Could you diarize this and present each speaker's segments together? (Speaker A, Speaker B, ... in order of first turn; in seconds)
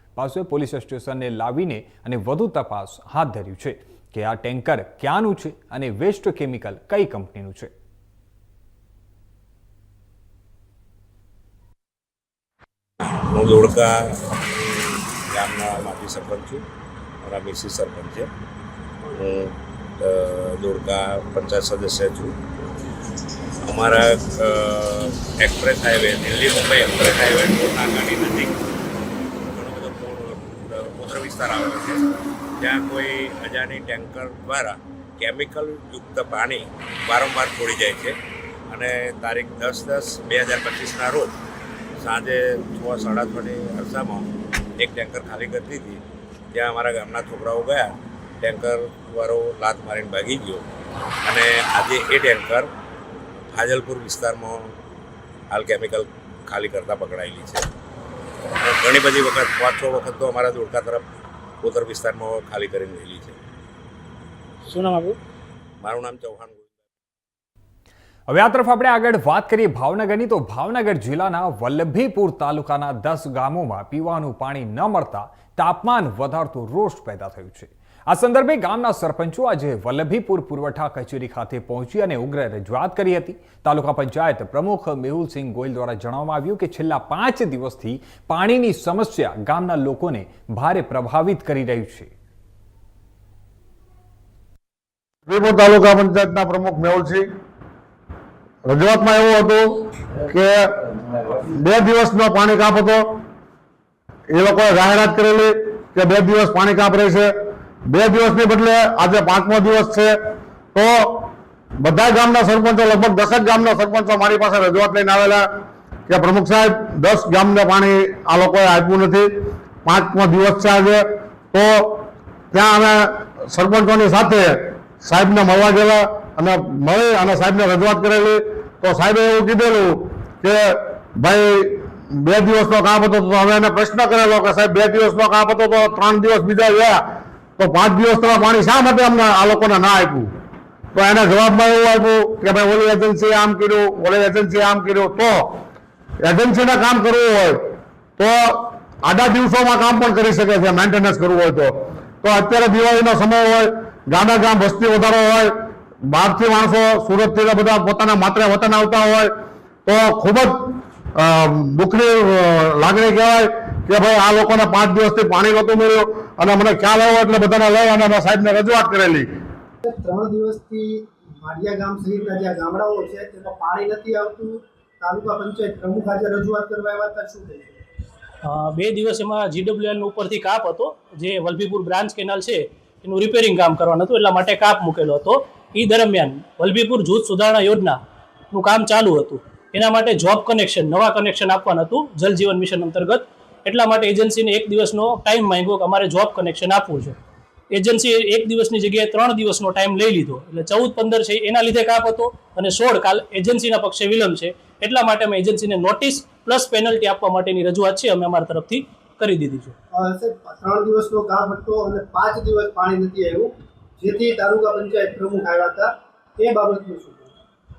Speaker A: 0.1-7.7, 68.3-92.1
Speaker B: 13.1-16.6, 17.2-18.3, 19.1-22.3, 23.6-28.6, 29.5-32.0, 32.6-38.1, 38.7-41.3, 42.0-46.0, 46.5-47.9, 48.4-50.6, 51.2-52.7, 53.5-54.7, 55.5-57.7, 58.6-61.0, 61.6-63.4, 65.8-66.7
Speaker C: 64.7-65.1, 178.4-188.0, 188.5-197.2, 197.7-209.7
Speaker D: 95.2-97.3, 98.6-100.7, 101.4-103.2, 104.3-115.5, 116.1-119.3, 119.8-137.0, 137.6-140.3, 140.9-145.6, 146.2-159.3, 159.8-169.3
Speaker E: 169.8-177.8, 209.9-217.3